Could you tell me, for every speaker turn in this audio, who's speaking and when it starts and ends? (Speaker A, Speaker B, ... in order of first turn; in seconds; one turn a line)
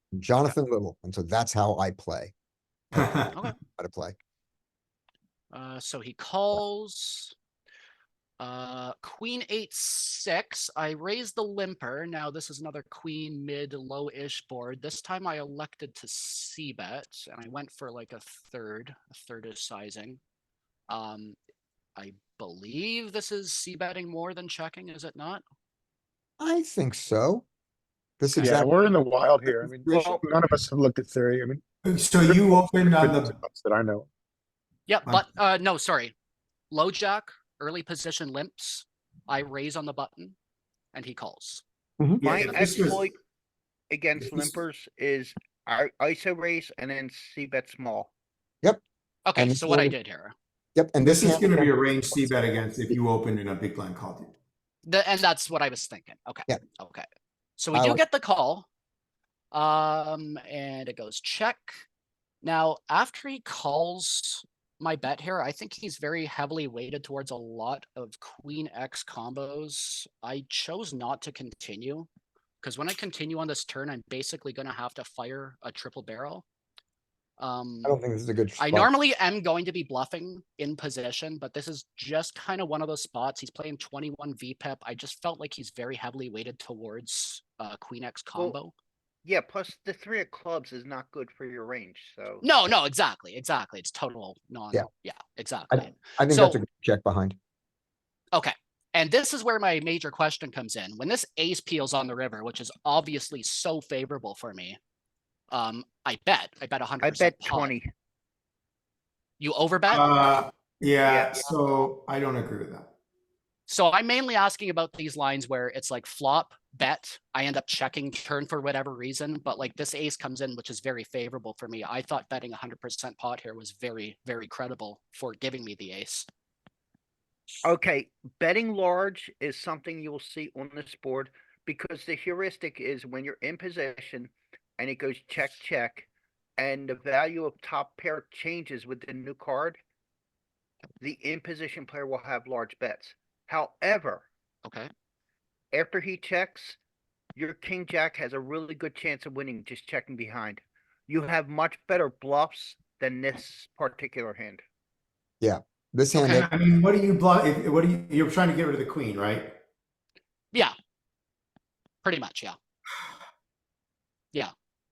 Speaker A: 0.1-2.3
Speaker A: 2.9-4.2
Speaker B: 5.5-7.3
Speaker B: 8.4-20.2
Speaker B: 20.9-21.4
Speaker B: 21.9-25.4
Speaker A: 26.4-27.4
Speaker A: 28.2-28.7
Speaker C: 28.4-31.6
Speaker D: 29.6-30.2
Speaker D: 31.8-33.3
Speaker C: 32.2-34.1
Speaker B: 34.9-36.1
Speaker B: 36.7-40.3
Speaker B: 40.9-41.6
Speaker D: 42.2-43.0
Speaker E: 42.2-43.1
Speaker B: 42.4-43.0
Speaker E: 43.9-48.1
Speaker D: 44.2-44.5
Speaker B: 49.2-50.3
Speaker A: 49.4-49.9
Speaker A: 50.7-52.3
Speaker D: 51.0-54.3
Speaker B: 54.8-57.0
Speaker B: 57.6-58.7
Speaker A: 57.7-58.0
Speaker B: 59.5-61.8
Speaker B: 62.4-72.1
Speaker B: 72.6-76.4
Speaker B: 77.4-77.9
Speaker A: 77.8-78.9
Speaker B: 78.6-88.7
Speaker E: 89.2-92.5
Speaker B: 92.4-96.6
Speaker A: 95.7-97.3
Speaker B: 98.3-104.8
Speaker B: 105.5-107.7
Speaker E: 107.0-107.9
Speaker B: 109.4-110.3
Speaker D: 109.9-112.9
Speaker E: 111.0-111.4
Speaker B: 113.7-126.2
Speaker E: 127.6-139.8
Speaker E: 141.0-144.3
Speaker B: 144.6-144.9
Speaker E: 145.7-146.8
Speaker E: 147.3-154.6
Speaker A: 155.4-156.5
Speaker B: 156.1-156.4
Speaker D: 156.4-159.5
Speaker B: 162.0-162.6